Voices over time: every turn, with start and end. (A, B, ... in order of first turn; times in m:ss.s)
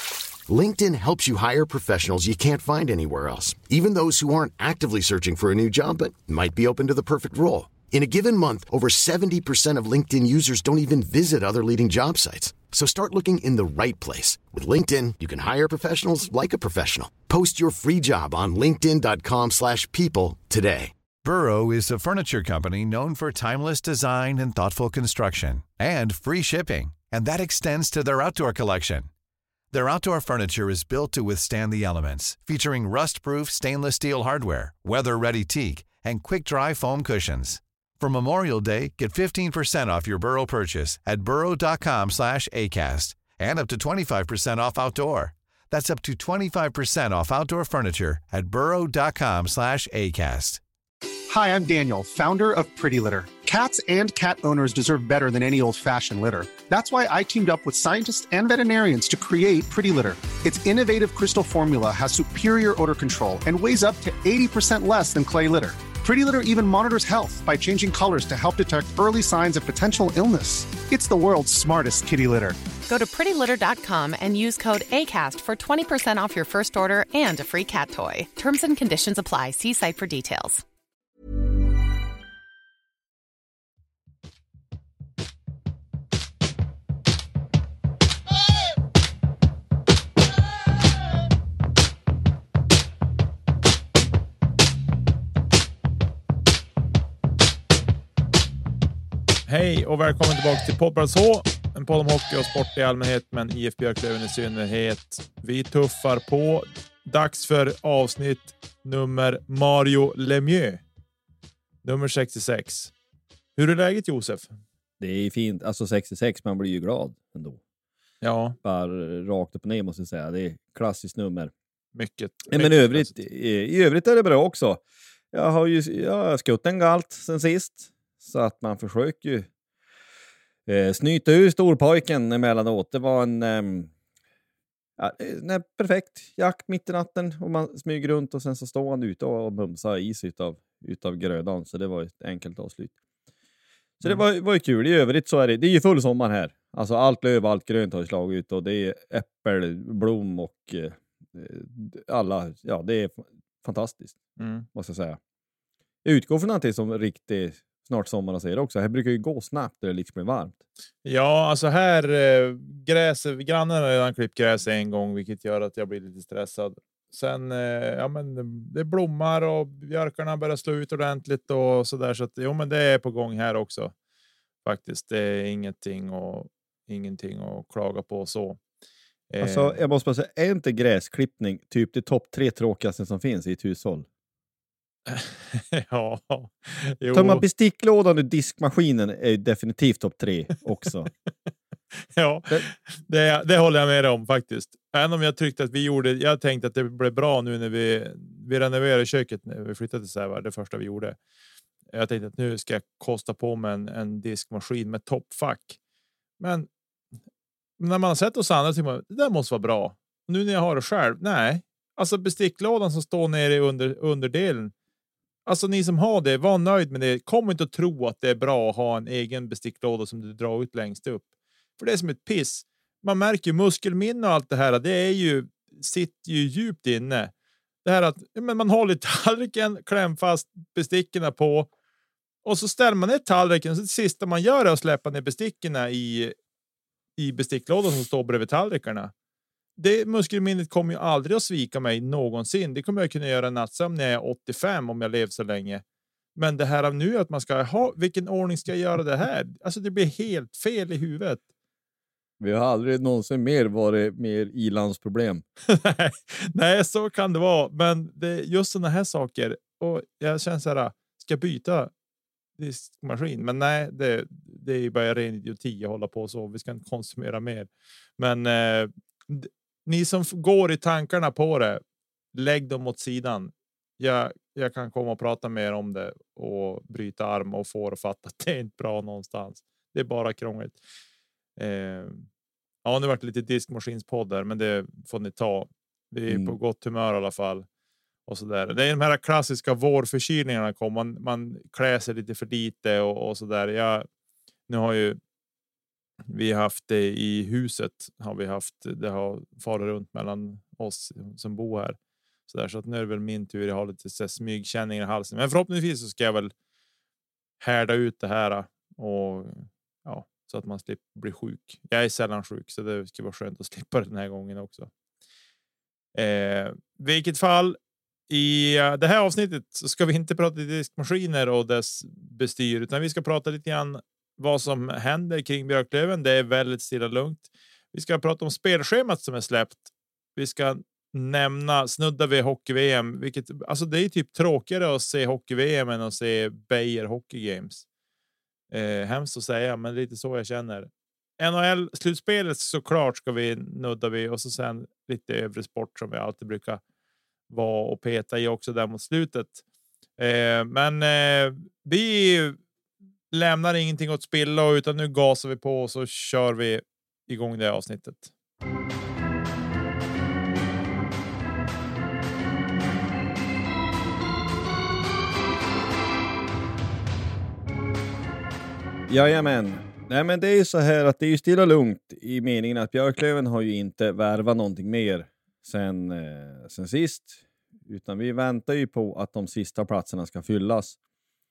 0:00.5-0:20.9 A
0:21.2-0:29.1 B
0:29.7-0:50.6 B
0:51.3-1:12.6 C
1:12.9-1:20.6 D
1:39.5-1:50.8 E
1:51.8-1:52.9 E
1:53.6-1:54.6 E
1:55.0-1:57.6 F
1:58.2-1:58.6 E
1:58.6-2:01.5 F
2:01.9-2:03.2 E
2:02.5-2:09.5 F
2:10.6-2:13.9 F
2:15.0-2:22.9 F
2:24.0-2:34.2 F
2:34.4-2:34.6 E
2:34.7-2:35.2 F
2:36.0-2:40.6 F
2:41.0-2:53.9 E
2:54.6-2:58.6 E
2:59.3-2:59.8 E
2:59.4-3:04.1 F
3:05.1-3:07.4 E
3:07.1-3:11.1 F
3:12.1-3:21.2 E
3:21.9-3:25.8 E
3:26.4-3:26.7 E
3:27.8-3:34.7 E
3:35.4-3:41.3 E
3:41.8-3:47.3 E
3:47.8-3:51.7 E
3:52.4-3:56.3 E
3:57.2-3:59.1 E
3:59.8-4:05.8 E
4:06.4-4:11.4 E
4:12.4-4:15.4 F
4:15.7-4:21.9 E
4:22.6-4:31.8 E
4:32.3-4:40.8 E
4:41.6-4:42.3 E
4:42.8-4:47.7 E
4:46.3-4:46.6 F
4:48.3-4:54.1 E
4:54.7-4:55.2 E
4:56.3-5:02.0 E
5:02.5-5:06.5 E
5:07.6-5:14.9 E
5:16.2-5:17.8 E
5:18.3-5:37.8 E
5:38.7-5:46.8 E
5:47.5-5:49.6 E
5:50.2-5:52.6 E
5:53.3-5:58.3 E
6:09.1-6:21.0 F